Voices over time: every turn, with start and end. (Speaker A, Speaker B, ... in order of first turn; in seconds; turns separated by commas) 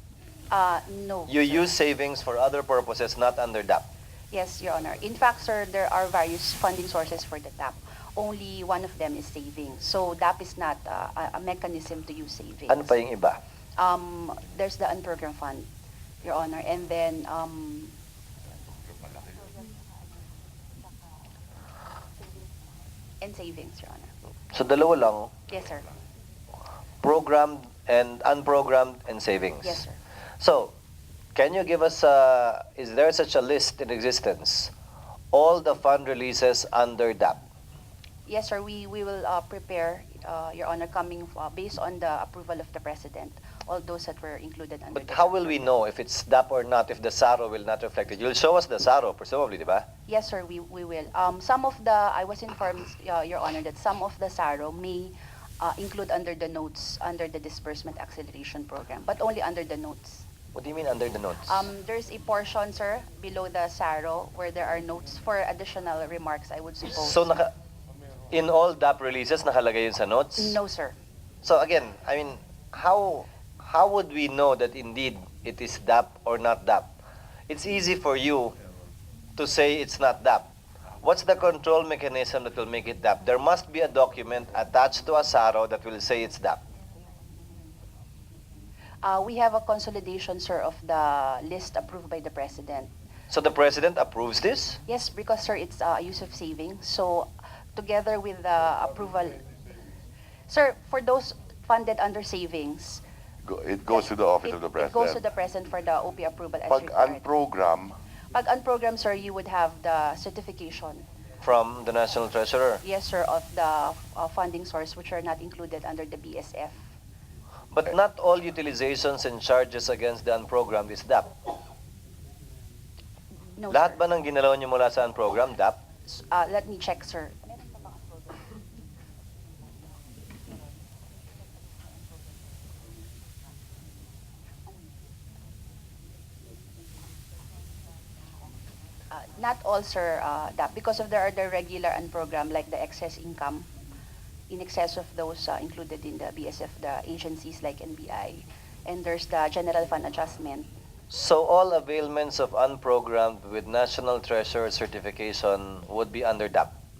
Speaker A: 0.5-1.7, Speaker B: 1.3-3.9, Speaker A: 4.3-12.9, Speaker B: 12.7-13.4, Speaker A: 13.8-15.7, Speaker A: 16.2-17.9, Speaker A: 23.2-24.1, Speaker B: 24.5-25.4, Speaker A: 25.5-25.9, Speaker B: 27.0-29.8, Speaker A: 29.6-30.0, Speaker B: 30.4-30.7, Speaker B: 31.3-34.7, Speaker B: 35.3-37.4, Speaker A: 38.2-45.6, Speaker B: 44.9-49.9, Speaker A: 50.1-60.2, Speaker B: 60.5-61.6, Speaker A: 61.5-67.4, Speaker B: 66.9-67.5, Speaker B: 68.3-70.6, Speaker A: 70.4-71.0, Speaker B: 71.4-76.9, Speaker B: 77.5-78.5, Speaker B: 79.4-80.5, Speaker B: 81.0-86.6, Speaker A: 89.0-92.9, Speaker B: 93.3-94.8, Speaker A: 94.9-99.4, Speaker A: 100.5-103.0, Speaker C: 103.4-105.2, Speaker A: 103.9-107.3, Speaker C: 106.7-107.9, Speaker A: 108.3-111.0, Speaker B: 111.4-112.8, Speaker A: 112.8-116.8, Speaker B: 117.7-121.3, Speaker A: 123.6-124.0, Speaker B: 123.7-125.8, Speaker A: 126.1-127.5, Speaker A: 139.1-143.7, Speaker A: 144.5-150.7, Speaker B: 151.1-156.8